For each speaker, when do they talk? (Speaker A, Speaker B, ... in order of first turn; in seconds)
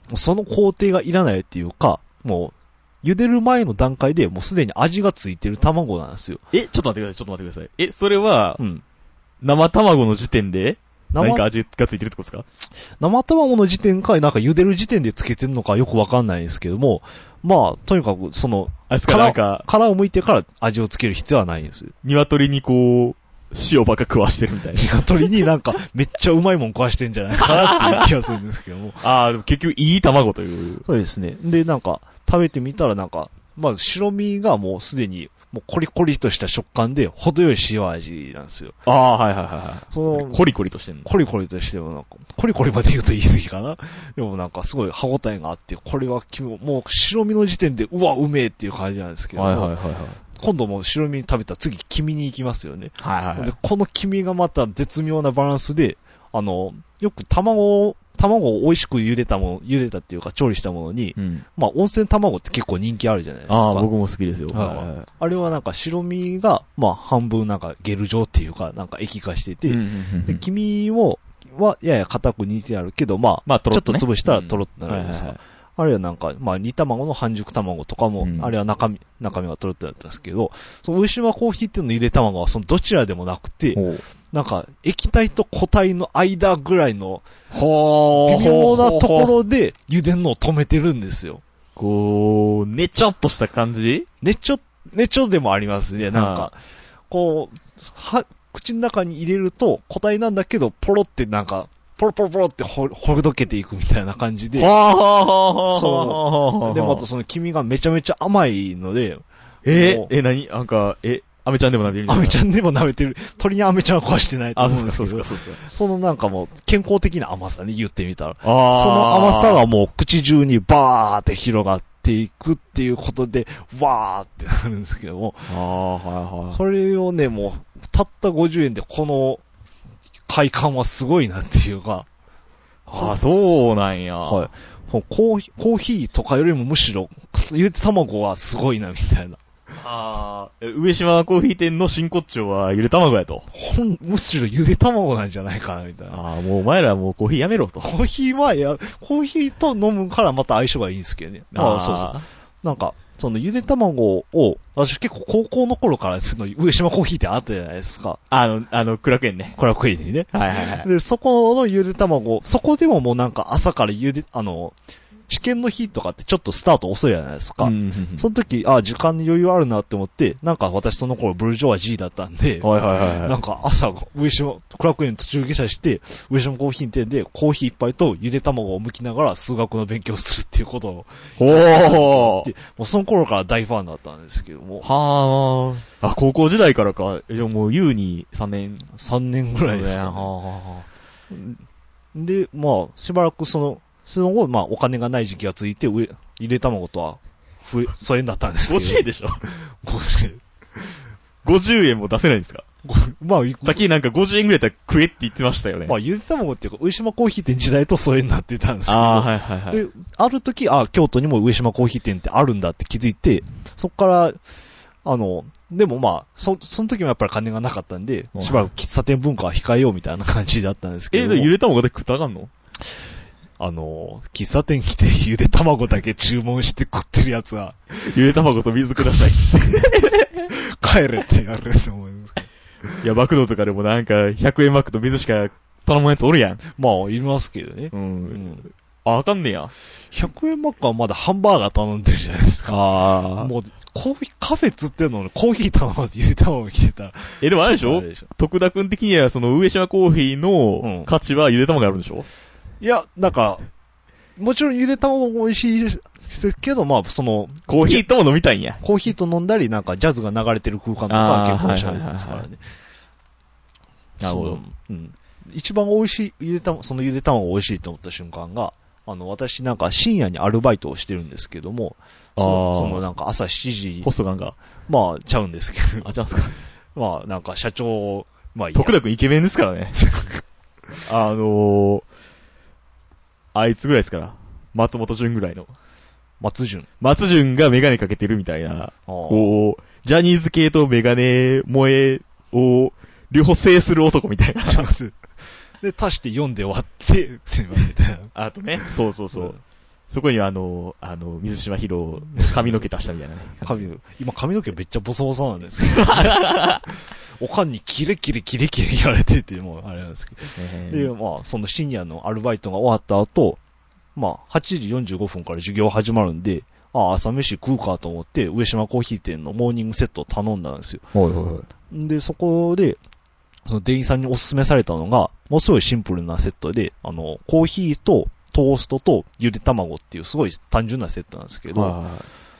Speaker A: 0.1-6.4, 11.1-11.5, 13.0-21.9, 24.7-29.0, 30.9-38.8, 39.9-40.5, 41.0-49.7, 50.4-63.9, 64.5-87.3, 88.2-91.4, 94.2-96.6, 97.1-104.7, 105.7-110.1, 112.1-125.5, 126.5-129.4, 130.3-132.1, 132.9-133.2, 134.2-139.4, 143.5-146.2, 147.8-158.2, 159.6-164.8, 165.3-184.9, 188.9-190.3, 191.3-191.6, 192.1-200.4, 202.8-203.8, 205.9-214.4, 215.1-221.5, 223.6-227.8, 230.4-232.5, 236.8-238.6, 240.1-248.3, 250.8-251.1, 252.8-253.7, 254.4-258.1, 258.8-262.6, 264.2-274.1, 274.9-276.1, 276.9-278.9, 279.9-280.4, 286.4-286.9, 289.1-289.5, 294.7-295.2, 295.8-298.3, 299.3-299.6, 303.6-313.6, 314.1-321.0, 321.9-323.0, 323.7-332.0
Speaker B: 6.5-8.6, 9.4-12.4, 18.9-19.7, 22.0-25.0, 27.4-28.1, 29.0-30.8, 38.9-41.1, 49.4-50.2, 53.0-53.5, 61.2-61.5, 63.5-65.1, 69.7-70.5, 73.5-75.4, 78.2-78.5, 83.7-84.0, 87.5-89.3, 91.8-94.1, 96.1-96.5, 104.6-107.1, 109.6-112.4, 114.6-115.6, 118.4-119.6, 125.5-126.6, 132.9-134.5, 139.7-143.5, 146.1-147.9, 151.5-152.3, 158.3-159.6, 160.3-160.9, 167.6-168.3, 172.6-173.4, 181.4-182.5, 184.8-188.9, 189.7-190.9, 198.7-199.4, 201.4-202.6, 203.6-206.0, 208.9-209.8, 218.3-218.7, 221.1-222.5, 228.0-230.5, 233.0-236.6, 237.9-239.7, 242.7-243.5, 247.4-252.3, 257.7-258.8, 261.1-262.5, 264.2-264.6, 272.4-273.1, 274.0-274.6, 276.0-276.6, 278.7-280.0, 281.0-282.1, 283.5-285.7, 287.0-294.9, 298.4-299.6, 300.1-303.9, 305.9-306.8, 310.6-311.1, 321.1-321.7, 331.7-332.3